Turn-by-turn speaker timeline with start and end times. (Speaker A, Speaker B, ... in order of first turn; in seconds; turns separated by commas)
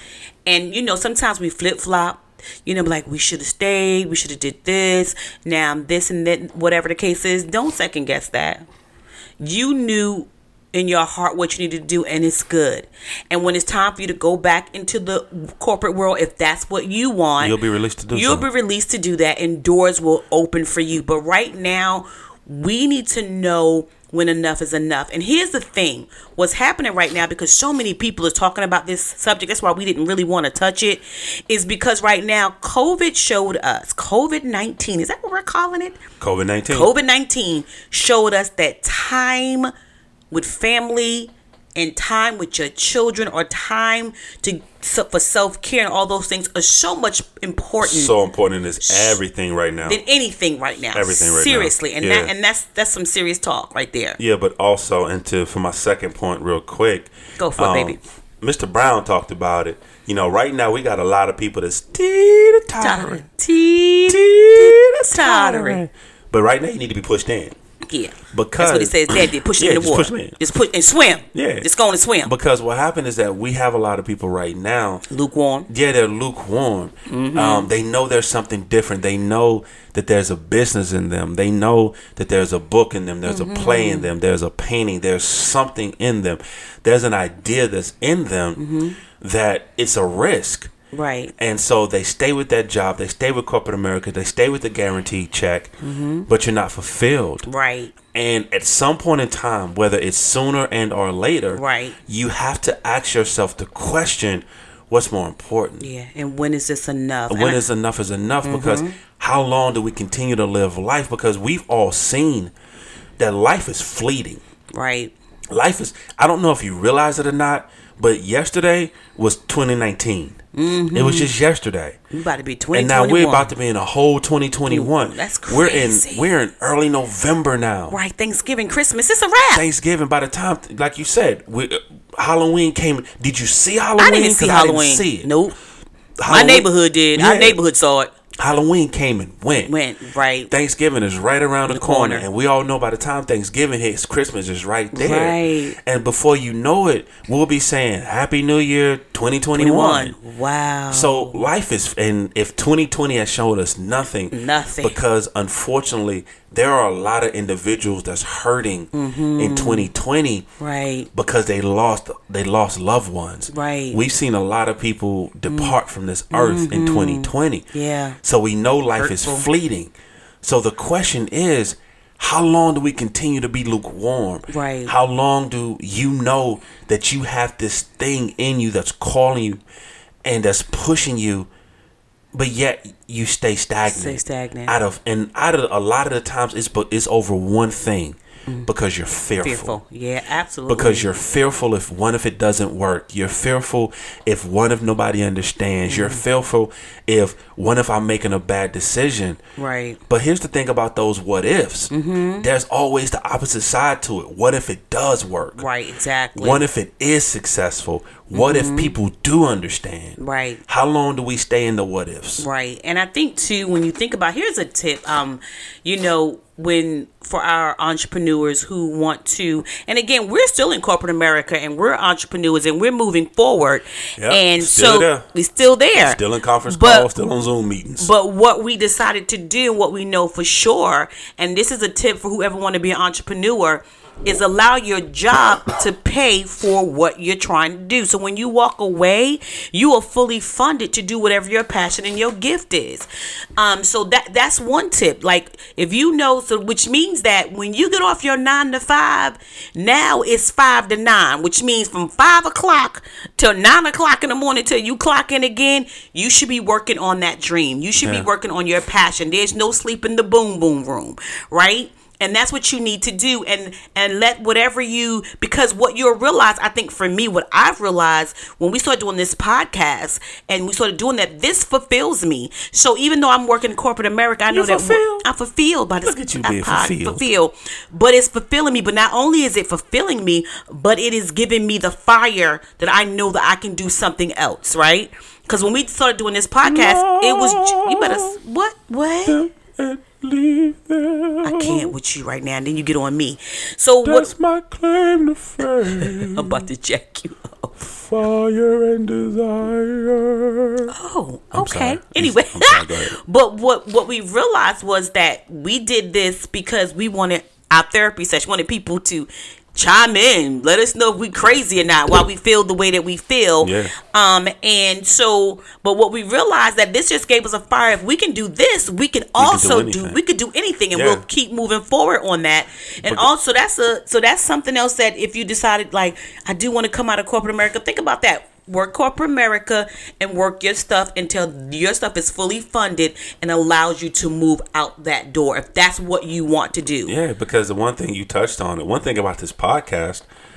Speaker A: 0.5-8.6, Speaker A: 9.4-17.6, Speaker B: 17.4-18.5, Speaker A: 18.1-36.0, Speaker B: 36.2-36.9, Speaker A: 36.7-39.7, Speaker A: 40.3-48.1, Speaker B: 47.8-50.0, Speaker A: 48.8-49.2, Speaker A: 49.8-54.2, Speaker B: 50.9-52.3, Speaker B: 54.2-63.2, Speaker A: 57.4-58.0, Speaker A: 62.8-65.8, Speaker B: 64.1-67.5, Speaker A: 67.9-72.3, Speaker B: 68.3-70.3, Speaker B: 71.3-71.7, Speaker B: 72.2-75.0, Speaker A: 75.1-75.7, Speaker B: 75.7-88.6, Speaker A: 77.1-77.7, Speaker A: 83.2-84.1, Speaker A: 88.6-89.0, Speaker B: 89.2-90.7, Speaker A: 90.9-91.3, Speaker B: 91.4-95.7, Speaker A: 95.8-96.3, Speaker B: 96.3-97.5, Speaker A: 97.5-97.9, Speaker B: 98.1-105.9, Speaker A: 101.5-102.0, Speaker A: 105.8-107.6, Speaker B: 107.3-112.5, Speaker A: 108.4-109.0, Speaker B: 113.2-114.4, Speaker A: 114.7-115.1, Speaker B: 115.5-120.4, Speaker A: 120.5-121.3, Speaker B: 120.9-122.0, Speaker A: 122.1-123.5, Speaker B: 122.7-128.0, Speaker A: 124.7-126.3, Speaker A: 127.9-129.7, Speaker B: 129.5-135.3, Speaker A: 134.0-135.5, Speaker B: 136.2-137.6, Speaker A: 136.3-138.1, Speaker B: 138.4-139.7, Speaker A: 139.7-140.5, Speaker B: 140.5-150.1, Speaker A: 141.7-142.2, Speaker A: 144.9-145.8, Speaker A: 149.6-151.4, Speaker B: 150.9-160.5, Speaker A: 154.3-155.0, Speaker A: 158.9-159.9, Speaker A: 160.6-161.1, Speaker B: 161.1-167.7, Speaker A: 163.5-164.0, Speaker A: 165.5-165.7, Speaker A: 166.3-168.2, Speaker B: 168.2-179.6, Speaker A: 168.9-169.5, Speaker A: 174.5-174.9, Speaker B: 180.2-181.5, Speaker B: 182.3-189.8, Speaker A: 183.9-184.7, Speaker A: 189.4-191.1, Speaker B: 190.7-199.4, Speaker A: 195.9-196.2, Speaker A: 199.6-200.0, Speaker B: 200.1-205.6, Speaker A: 201.9-202.5, Speaker A: 205.6-206.6, Speaker B: 206.3-212.5, Speaker A: 208.3-208.9, Speaker A: 210.2-210.6, Speaker A: 212.4-227.1, Speaker B: 224.2-225.3, Speaker B: 225.9-228.1, Speaker A: 228.0-289.4, Speaker B: 258.0-258.3, Speaker B: 274.5-275.2, Speaker B: 276.0-277.2, Speaker B: 286.6-288.4, Speaker B: 289.3-291.9, Speaker A: 291.4-294.3, Speaker B: 294.0-296.6, Speaker A: 296.0-297.8, Speaker B: 297.8-300.9, Speaker A: 300.9-337.1, Speaker B: 301.5-303.2, Speaker B: 313.6-313.9, Speaker B: 319.4-320.2, Speaker B: 320.9-321.2, Speaker B: 337.1-340.2